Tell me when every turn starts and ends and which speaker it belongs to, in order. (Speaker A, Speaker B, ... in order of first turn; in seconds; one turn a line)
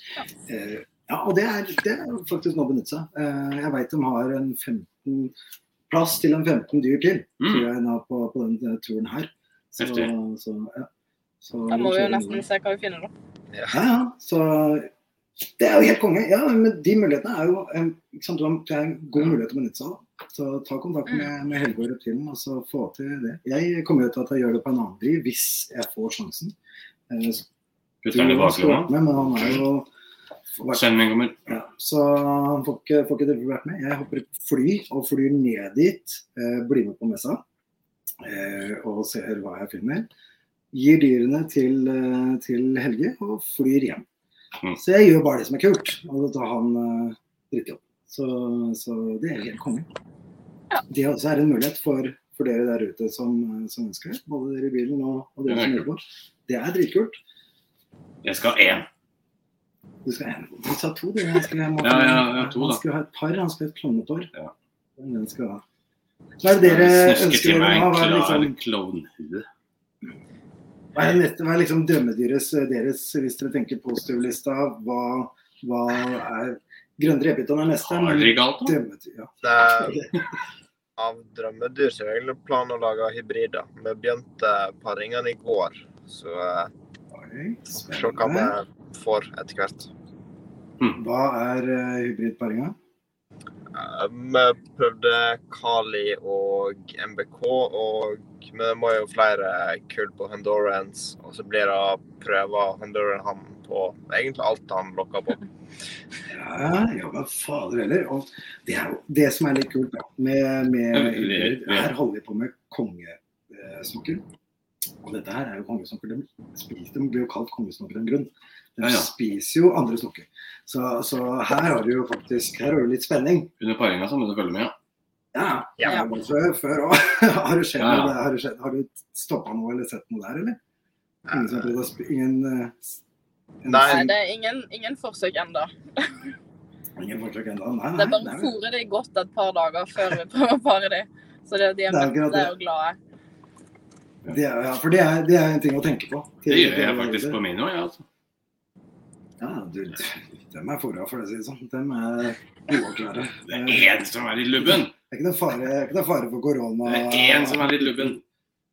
Speaker A: 0.5-5.3
Speaker A: 5.9-10.9
Speaker B: 7.4-7.7
Speaker B: 9.8-10.1
Speaker A: 11.4-12.4
Speaker C: 11.7-13.1
Speaker A: 13.7-14.9
Speaker A: 15.6-26.6
Speaker A: 27.1-27.4
Speaker B: 28.0-29.6
Speaker A: 28.1-29.9
Speaker A: 30.6-30.8
Speaker B: 30.7-31.4
Speaker A: 31.5-37.4
Speaker A: 38.2-40.1
Speaker A: 40.7-44.1
Speaker A: 44.8-49.9
Speaker A: 50.9-57.2
Speaker B: 55.5-55.9
Speaker B: 58.2-58.9
Speaker A: 60.0-64.3
Speaker B: 61.8-62.8
Speaker A: 65.0-65.6
Speaker A: 66.4-68.5
Speaker B: 66.6-69.5
Speaker A: 70.9-80.1
Speaker B: 77.8-78.8
Speaker D: 79.4-80.0
Speaker D: 81.0-86.7
Speaker A: 87.1-88.5
Speaker D: 87.7-89.9
Speaker A: 91.0-92.8
Speaker D: 93.7-105.4
Speaker A: 106.3-114.2
Speaker B: 110.9-111.9
Speaker A: 115.0-123.5
Speaker B: 118.8-119.1
Speaker B: 123.6-124.8
Speaker A: 125.3-130.6
Speaker B: 127.8-128.2
Speaker A: 131.3-133.0
Speaker A: 133.6-134.1
Speaker D: 133.7-134.1
Speaker C: 133.8-136.3
Speaker A: 137.0-138.6
Speaker C: 138.0-143.0
Speaker A: 141.9-142.5
Speaker A: 144.3-147.4
Speaker B: 146.5-148.1
Speaker A: 149.4-153.9
Speaker B: 153.5-154.9
Speaker A: 154.6-158.2
Speaker B: 156.8-158.2